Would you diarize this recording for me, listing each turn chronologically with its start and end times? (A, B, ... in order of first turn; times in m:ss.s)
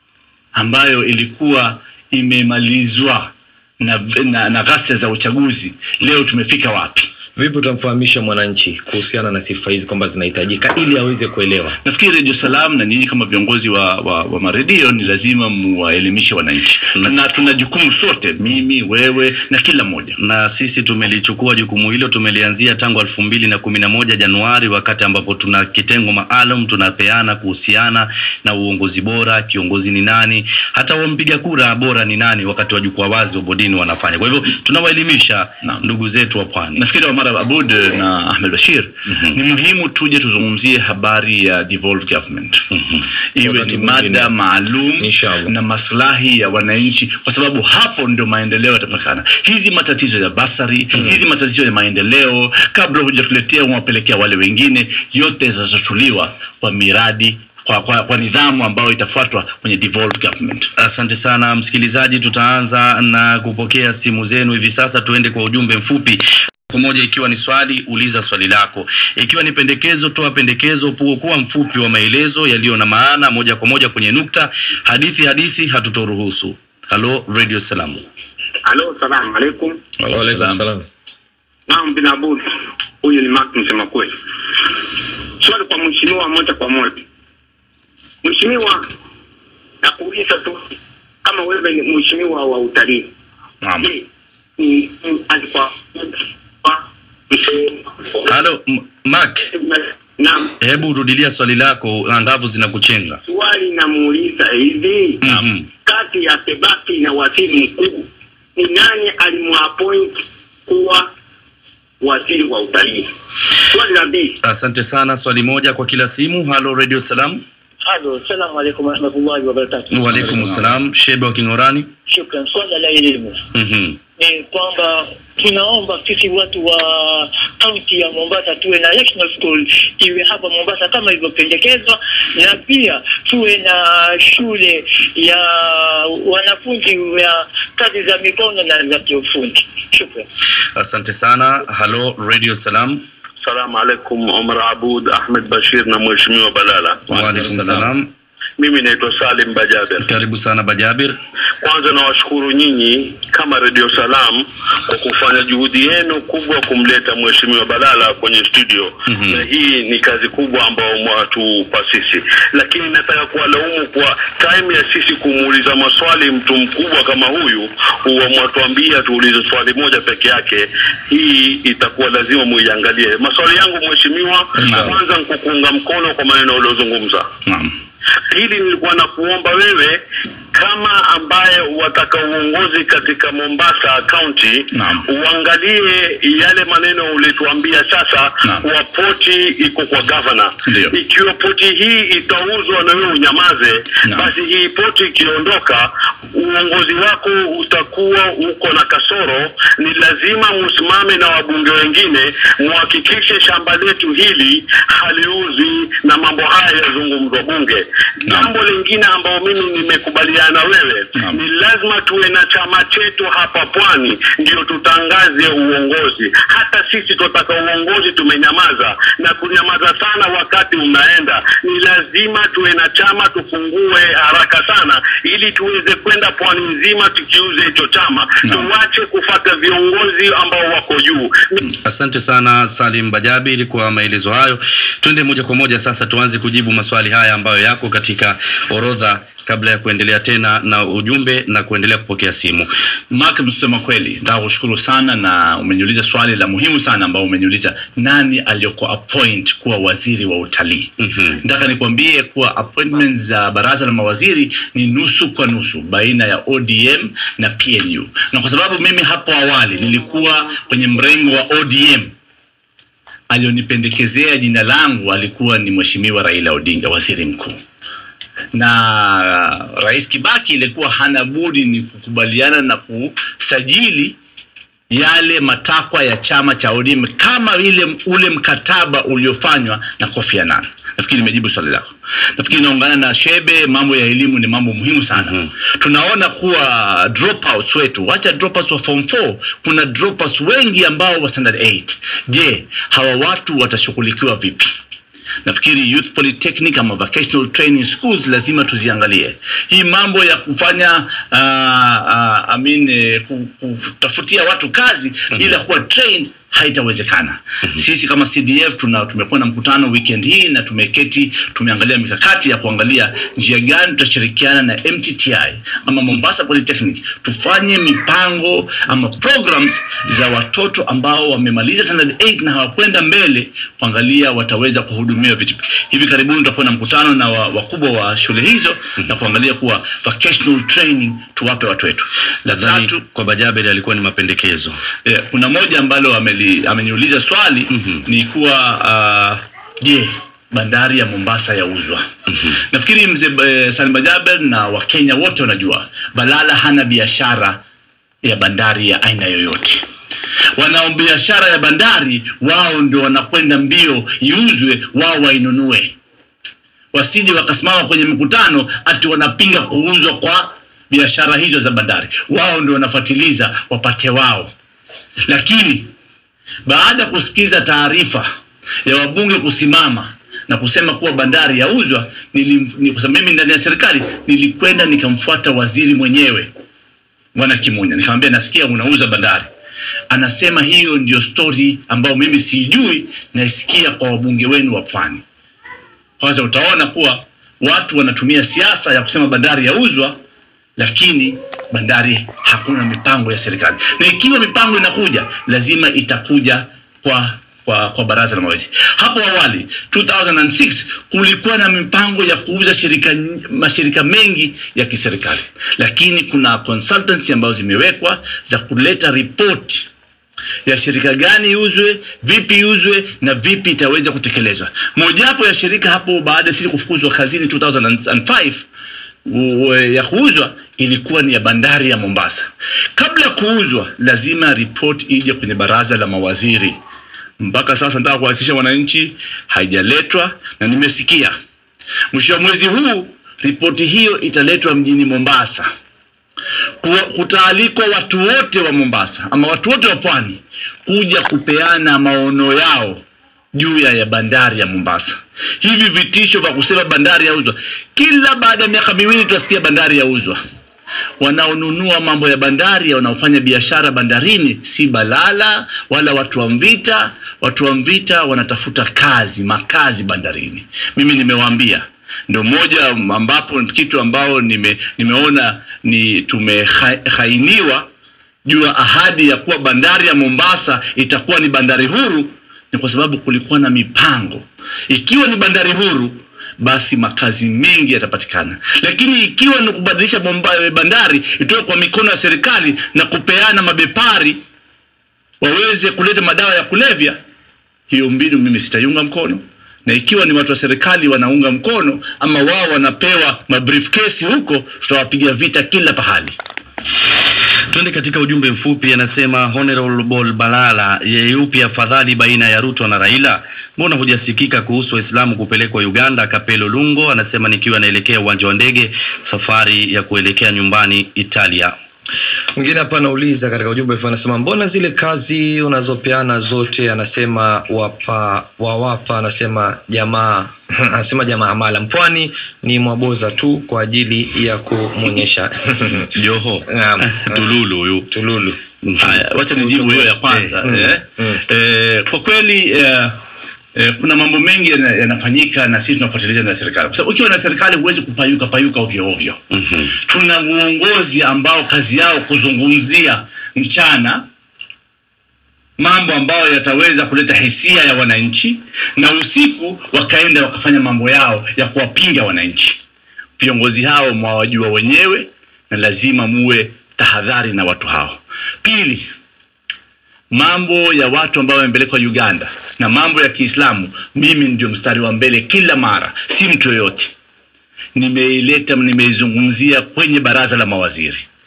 0:00.5-0:07.1 A
0:07.4-0:11.8 B
0:11.8-0:20.2 A
0:20.2-0:36.8 C
0:36.8-0:42.6 A
0:43.3-1:00.7 A
0:43.4-0:44.3 B
0:45.0-0:45.5 B
1:00.8-1:18.0 C
1:18.6-1:19.8 D
1:20.0-1:20.6 A
1:20.1-1:20.8 B
1:21.7-1:22.5 D
1:23.0-1:24.1 D
1:25.4-1:27.0 D
1:28.2-1:28.9 D
1:29.8-1:30.7 D
1:31.2-1:33.1 D
1:33.6-1:33.9 A
1:33.8-1:34.0 D
1:34.6-1:38.2 D
1:38.2-1:39.4 C
1:39.5-1:40.5 D
1:40.6-1:43.2 C
1:43.2-1:45.2 D
1:45.2-1:45.6 C
1:45.8-1:51.1 D
1:52.0-1:53.1 D
1:53.7-1:54.4 D
1:54.4-1:57.4 C
1:57.8-2:00.3 E
1:59.9-2:01.9 C
2:00.2-2:00.7 A
2:02.1-2:03.4 E
2:03.5-2:04.0 C
2:04.2-2:20.2 E
2:20.8-2:23.0 C
2:23.4-2:27.0 F
2:27.1-2:28.1 C
2:27.2-2:27.8 A
2:28.6-2:30.0 F
2:30.0-2:31.2 C
2:31.6-2:57.3 F
2:39.1-2:39.4 C
2:54.6-2:55.0 B
2:54.6-2:54.9 A
2:57.4-2:57.7 A
2:58.3-3:00.0 F
3:00.5-3:51.6 F
3:04.7-3:05.0 A
3:14.1-3:14.3 A
3:28.3-3:28.5 A
3:48.4-3:48.7 A
3:51.8-4:02.7 C
4:03.1-4:10.9 A
4:11.0-4:11.4 C
4:11.4-4:22.1 A
4:23.3-4:27.6 A
4:28.5-4:34.2 A
4:34.9-4:54.7 A
4:55.4-5:32.1 A
5:32.4-5:34.8 C
5:32.6-5:33.0 A
5:35.0-5:42.0 A
5:42.7-5:47.6 A
5:48.2-5:49.8 A
5:50.6-5:56.0 A
5:56.9-6:04.5 A
6:05.3-6:05.9 A
6:06.6-6:08.3 A
6:08.8-6:16.5 A
6:17.3-6:19.5 A
6:20.1-6:25.2 A
6:26.2-6:30.2 A
6:30.8-6:49.9 A
6:50.6-6:58.6 A
6:59.2-7:02.4 A
7:03.0-7:06.8 A
7:07.4-7:11.3 A
7:12.1-7:15.7 A
7:16.8-7:23.0 A
7:23.5-7:30.4 A
7:31.2-7:47.8 A
7:48.4-8:04.4 A
8:05.4-8:07.2 A
8:07.9-8:16.4 A
8:17.7-8:31.7 C
8:32.6-8:46.1 B
8:46.1-8:48.1 C
8:46.6-8:47.5 B
8:48.1-8:48.6 B
8:48.8-8:49.2 C
8:49.0-8:53.2 A
8:49.5-8:51.4 B
8:53.7-8:59.4 A
8:59.5-8:59.9 C
9:00.0-9:04.2 A
9:05.8-9:12.8 A
9:13.4-9:19.1 A
9:20.3-9:27.1 A
9:28.0-9:31.2 A